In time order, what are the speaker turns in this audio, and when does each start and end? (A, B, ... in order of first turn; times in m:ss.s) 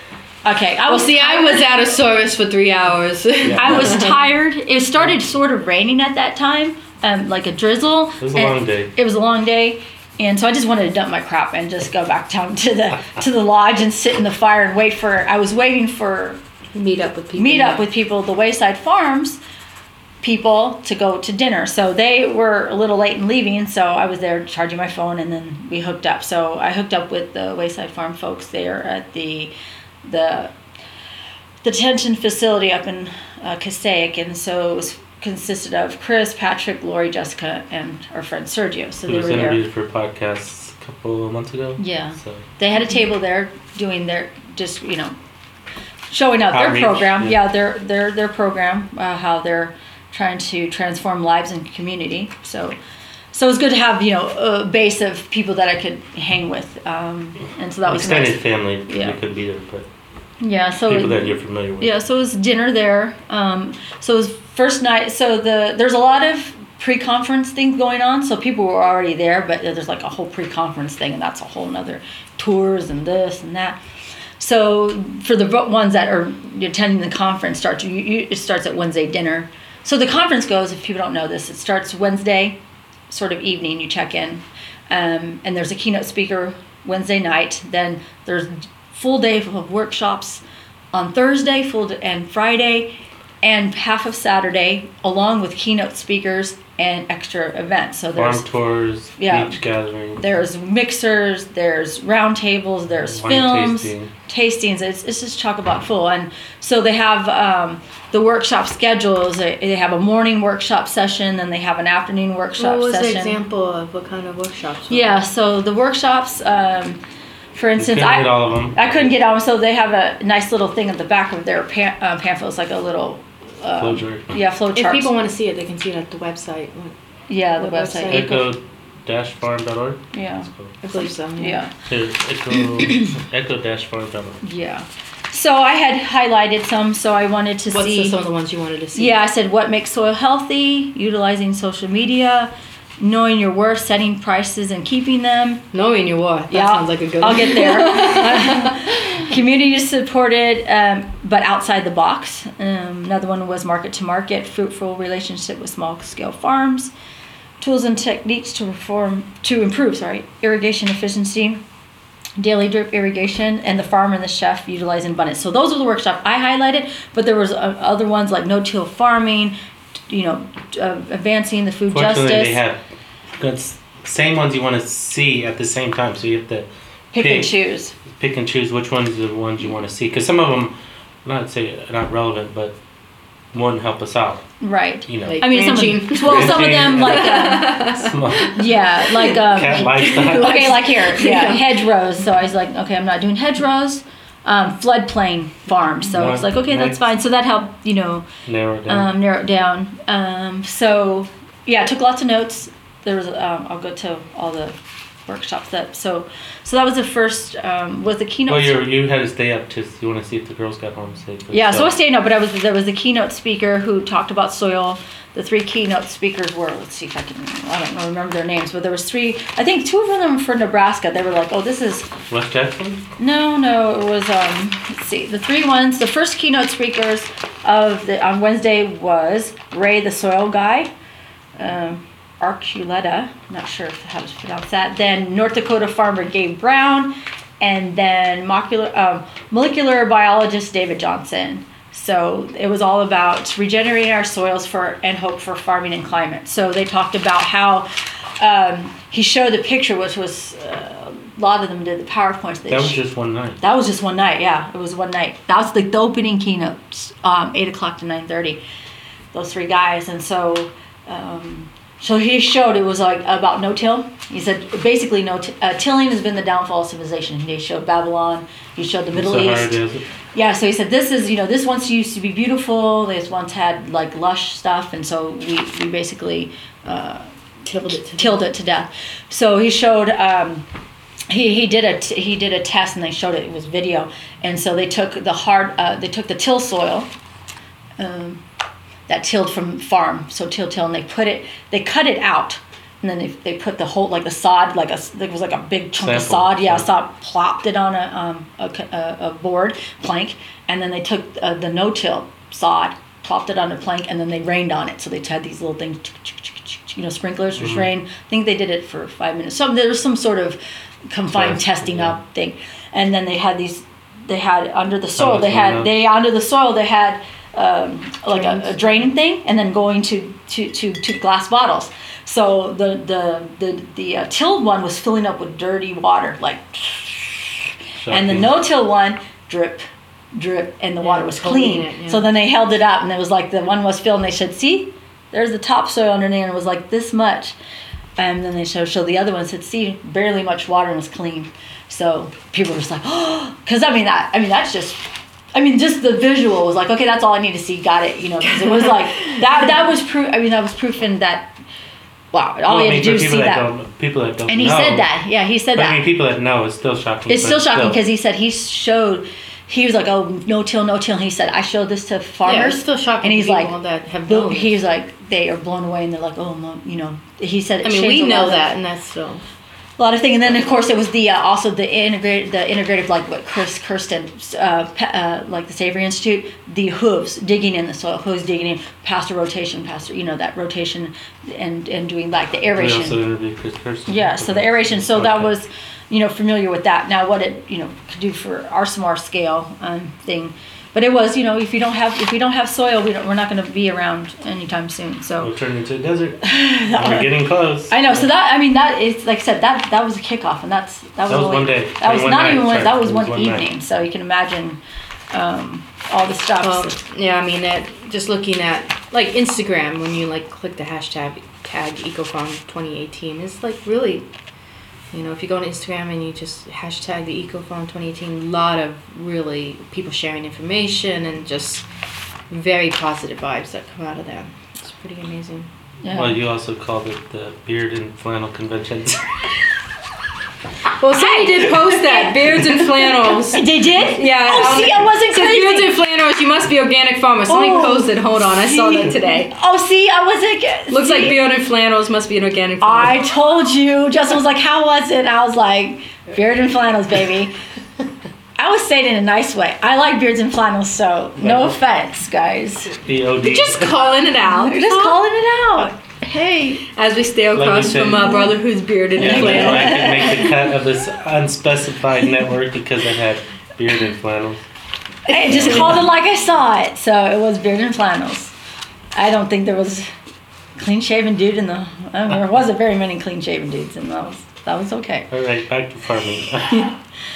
0:00.4-0:01.7 A
0:00.9-0:04.2 B
0:03.4-0:04.1 C
0:03.6-0:16.4 A
0:08.2-0:08.9 C
0:16.7-0:17.8 B
0:17.4-0:19.4 A
0:20.2-0:29.5 A
0:30.0-0:30.5 A
0:31.6-0:39.6 A
0:39.1-0:42.4 C
0:41.8-0:45.1 A
0:46.1-0:52.8 A
0:46.5-0:47.4 C
0:53.3-0:59.2 A
0:57.9-0:59.9 C
1:00.4-1:13.8 A
1:00.9-1:02.0 C
1:14.4-1:22.6 A
1:23.1-1:38.5 A
1:38.2-1:40.3 C
1:39.2-1:39.6 A
1:40.2-1:53.4 A
1:43.1-1:44.1 C
1:52.6-1:55.2 B
1:54.9-1:57.0 A
1:57.6-2:05.1 A
1:57.8-1:59.1 C
2:03.8-2:04.3 C
2:04.8-2:07.0 B
2:07.3-2:08.5 A
2:07.6-2:08.4 B
2:08.1-2:10.7 C
2:10.1-2:11.7 A
2:10.8-2:11.6 B
2:11.9-2:14.4 C
2:12.5-2:13.1 A
2:14.4-2:18.2 A
2:17.7-2:19.2 B
2:19.0-2:25.7 A
2:25.7-2:28.9 B
2:26.5-2:36.9 A
2:37.6-2:41.6 A
2:42.4-2:49.6 A
2:50.1-2:52.6 A
2:51.9-2:52.8 C
2:53.3-2:57.5 C
2:57.1-2:57.9 A
2:58.1-3:02.8 C
3:03.5-3:04.5 C
3:04.6-3:08.0 A
3:05.1-3:08.6 C
3:05.2-3:08.5 B
3:08.5-3:18.3 A
3:09.4-3:10.8 C
3:09.9-3:11.8 B
3:16.1-3:17.0 C
3:18.5-3:19.1 C
3:18.9-3:28.8 A
3:28.5-3:31.9 C
3:31.5-3:42.1 A
3:42.3-3:43.0 C
3:43.2-3:50.9 A
3:51.6-4:07.9 A
4:08.4-4:13.0 A
4:12.7-4:13.6 C
4:13.6-4:18.6 A
4:19.3-4:29.8 A
4:29.1-4:30.0 C
4:30.3-4:40.7 A
4:37.7-4:38.4 B
4:41.3-4:47.1 A
4:48.0-4:48.4 A
4:49.1-5:10.6 A
4:56.0-4:56.9 C
5:07.6-5:07.9 C
5:11.1-5:37.6 A
5:11.3-5:12.2 C
5:15.2-5:16.0 C
5:18.3-5:19.0 B
5:28.0-5:28.6 C
5:31.0-5:32.3 B
5:38.2-5:45.0 A
5:45.5-5:51.5 A
5:52.3-5:53.7 A
5:52.7-5:55.0 C
5:54.5-5:56.0 A
5:55.8-5:58.0 C
5:57.3-6:03.7 A
6:02.4-6:04.8 B
6:04.3-6:08.6 A
6:07.8-6:09.4 B
6:10.0-6:23.2 A
6:22.8-6:25.5 C
6:24.1-6:35.5 A
6:35.4-6:38.3 C
6:36.4-6:37.3 A
6:37.9-6:44.8 A
6:41.3-6:43.7 C
6:45.3-6:47.0 A
6:46.6-6:54.3 B
6:55.1-7:01.8 B
7:02.5-7:05.7 B
7:06.0-7:06.4 A
7:06.1-7:09.4 C
7:11.0-7:19.5 B
7:11.1-7:15.9 A
7:17.5-7:21.4 A
7:20.9-7:23.3 B
7:22.8-7:27.5 A
7:28.6-7:33.0 A
7:31.4-7:31.8 C
7:33.0-7:34.0 C
7:33.4-7:35.2 B
7:34.5-7:36.9 A
7:37.0-7:40.2 B
7:37.6-7:38.5 C
7:38.3-7:38.5 A
7:39.2-7:44.6 C
7:39.2-7:40.6 A
7:45.3-7:48.5 A
7:45.3-7:46.0 B
7:45.5-7:46.1 C
7:49.2-7:50.1 A
7:50.8-7:55.3 A
7:55.3-7:56.9 C